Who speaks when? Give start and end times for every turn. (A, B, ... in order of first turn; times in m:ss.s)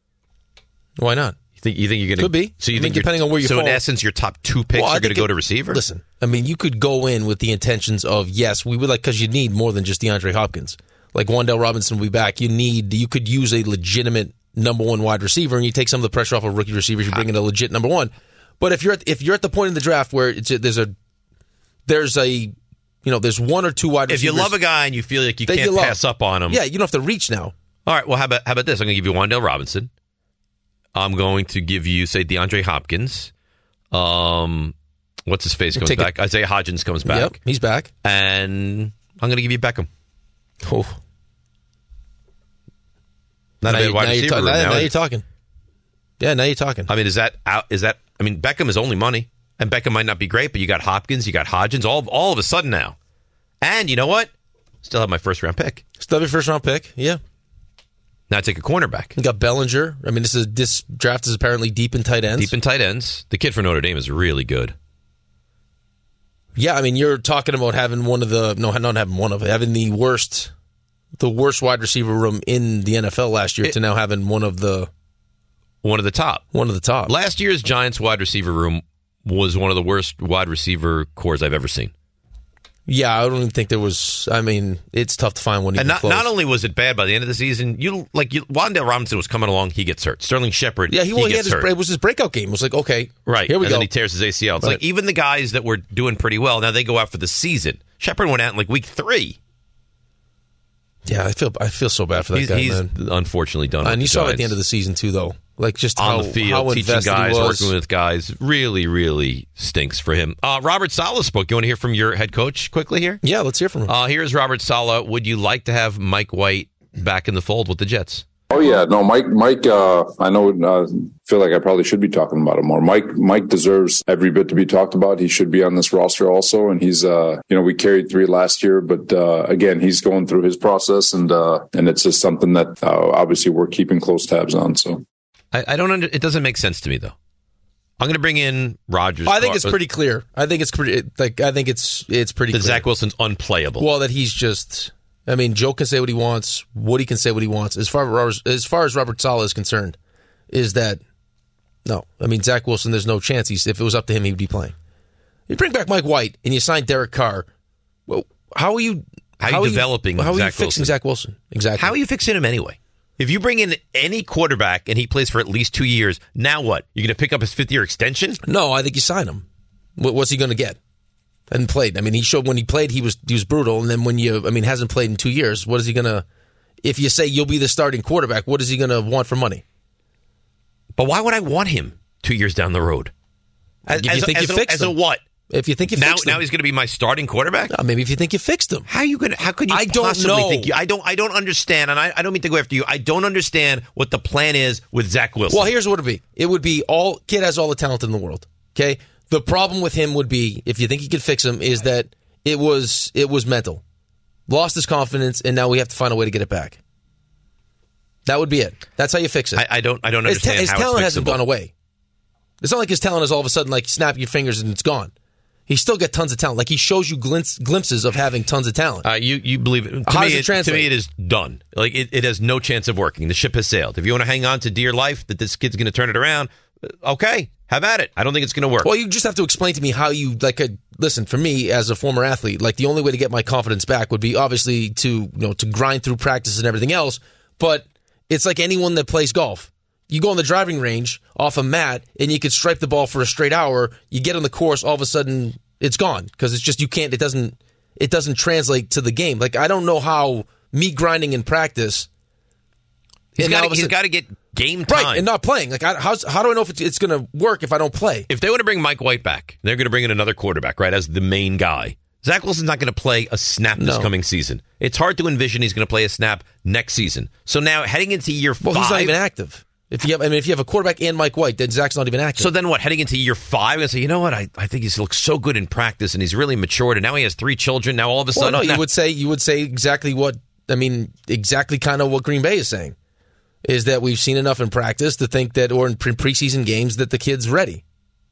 0:01.0-0:01.4 A
0:01.6-0:05.8 B
0:02.2-0:03.8 A
0:04.7-0:20.9 A
0:21.8-0:24.5 A
0:24.1-0:26.6 B
0:25.4-0:27.5 A
0:27.8-0:29.9 B
0:30.9-0:33.3 B
0:33.9-0:34.7 B
0:35.3-0:37.4 B
0:35.7-0:36.1 A
0:37.0-0:37.9 A
0:38.0-0:39.9 B
0:40.6-0:41.0 A
0:43.6-0:44.9 B
0:43.6-0:45.2 A
0:46.2-0:46.9 A
0:46.9-0:52.9 B
0:53.6-0:54.3 B
0:54.8-0:55.8 B
0:56.0-0:57.2 A
0:58.3-0:59.1 B
0:59.2-1:02.5 A
1:02.4-1:04.7 B
1:06.6-1:10.5 A
1:11.2-1:14.9 A
1:15.8-1:16.4 B
1:16.5-1:17.1 A
1:17.1-1:21.9 B
1:22.9-1:26.3 A
1:25.8-1:31.7 B
1:30.9-1:33.9 A
1:33.2-1:39.4 B
1:41.0-1:42.9 A
1:42.3-1:44.5 B
1:43.8-1:47.7 A
1:46.0-1:53.2 B
1:53.2-1:53.9 A
1:53.9-1:58.2 B
1:58.5-2:15.0 C
2:15.5-2:17.1 B
2:18.0-2:19.8 B
2:19.2-2:22.8 A
2:22.5-2:23.8 B
2:23.8-2:30.0 A
2:30.5-2:31.0 A
2:31.8-2:34.7 A
2:35.5-2:37.5 A
2:38.1-2:42.0 A
2:39.4-2:40.9 B
2:41.8-2:48.4 B
2:48.4-2:49.4 A
2:50.0-2:50.8 A
2:51.5-2:56.2 A
2:56.8-2:59.6 A
3:01.0-3:03.1 B
3:03.9-3:05.2 B
3:03.9-3:04.9 A
3:05.5-3:06.4 A
3:05.9-3:07.7 B
3:07.7-3:08.9 A
3:08.9-3:15.7 B
3:09.7-3:10.7 A
3:15.5-3:23.8 A
3:24.5-3:26.8 A
3:28.2-3:29.6 A
3:29.6-3:31.4 B
3:30.2-3:31.7 A
3:32.6-3:35.1 A
3:35.7-3:39.1 A
3:39.0-3:48.9 B
3:40.0-3:40.9 A
3:48.8-4:12.1 A
4:13.4-4:15.2 B
4:13.4-4:14.0 A
4:14.9-4:18.3 A
4:18.3-4:29.1 B
4:23.8-4:24.1 A
4:28.6-4:32.5 A
4:32.4-4:38.8 B
4:38.3-4:42.9 A
4:43.6-4:47.8 A